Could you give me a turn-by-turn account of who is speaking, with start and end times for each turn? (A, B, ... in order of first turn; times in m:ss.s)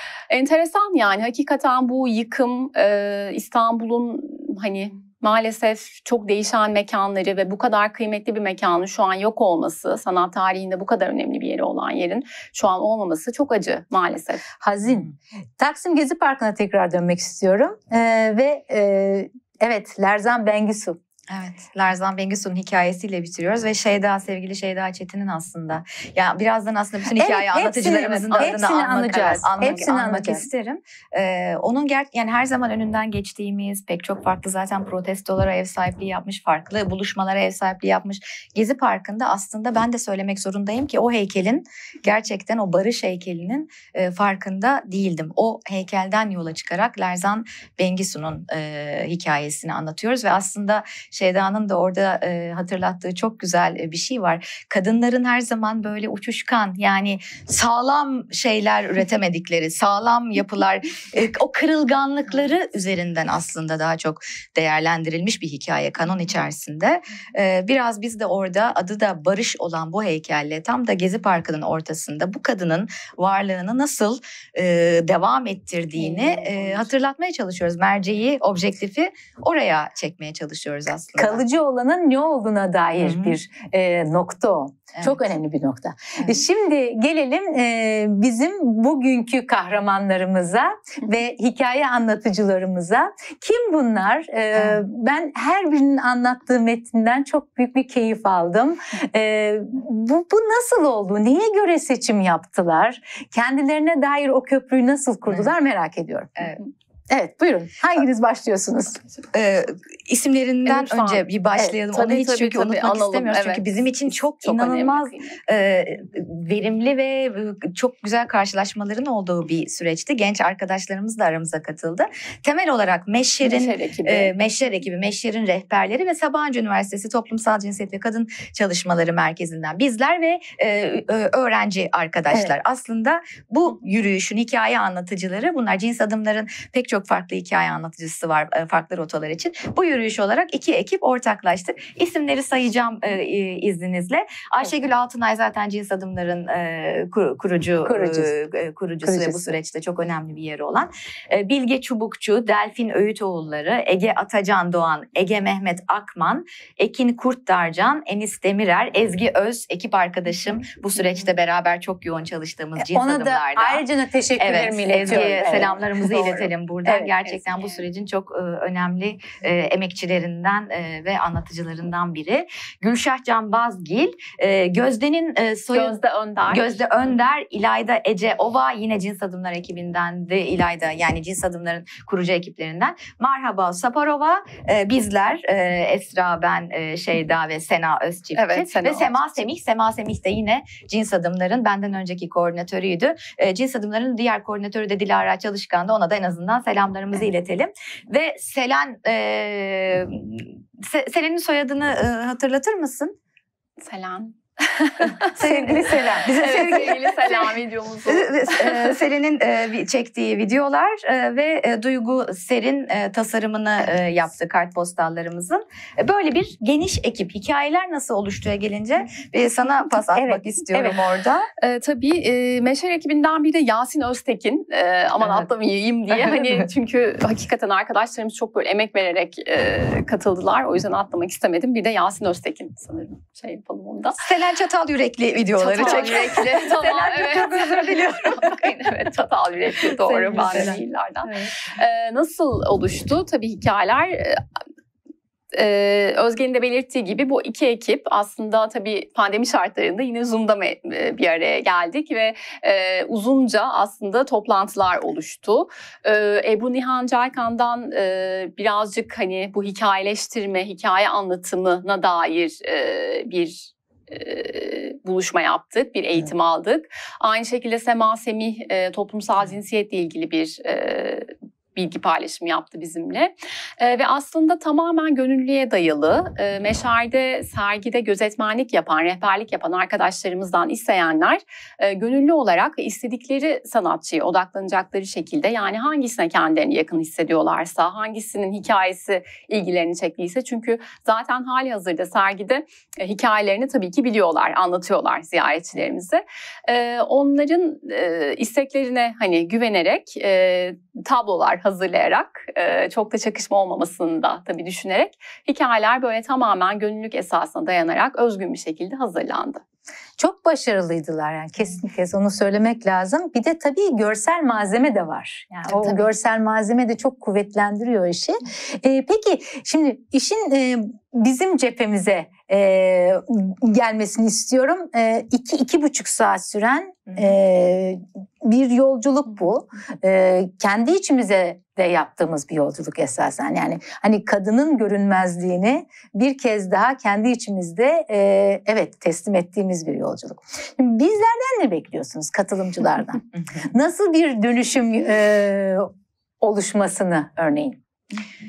0:00.3-0:14.4 A
0:14.6-0:21.0 B
0:21.3-1:21.4 C
0:27.2-0:30.4 B
0:28.0-0:29.9 A
1:16.1-1:16.8 A
1:21.2-1:46.3 B
1:23.0-1:23.4 C
1:24.9-1:25.2 C
1:45.3-1:45.5 C
1:47.1-1:49.0 B
1:49.3-2:43.8 C
1:50.6-1:51.2 A
1:51.9-1:53.6 A
1:54.4-1:55.4 A
2:03.4-2:04.3 A
2:27.8-2:28.3 B
2:29.0-2:29.6 B
2:42.8-2:46.2 B
2:44.4-2:56.0 C
2:45.3-2:46.4 A
2:46.8-2:47.1 B
2:47.2-2:47.8 A
2:55.7-2:56.8 A
2:56.5-3:23.2 C
3:08.3-3:09.4 A
3:23.8-3:29.0 A
3:25.2-3:27.5 C
3:25.3-3:26.4 B
3:28.0-3:41.5 C
3:40.1-3:41.0 B
3:41.6-3:54.2 A
3:46.1-3:46.6 C
3:54.2-3:59.0 C
3:55.6-4:04.4 A
3:55.8-3:56.1 B
3:59.8-4:00.8 C
4:05.5-5:09.6 A
5:10.2-5:45.9 B
5:15.7-5:16.0 C
5:46.4-5:47.8 B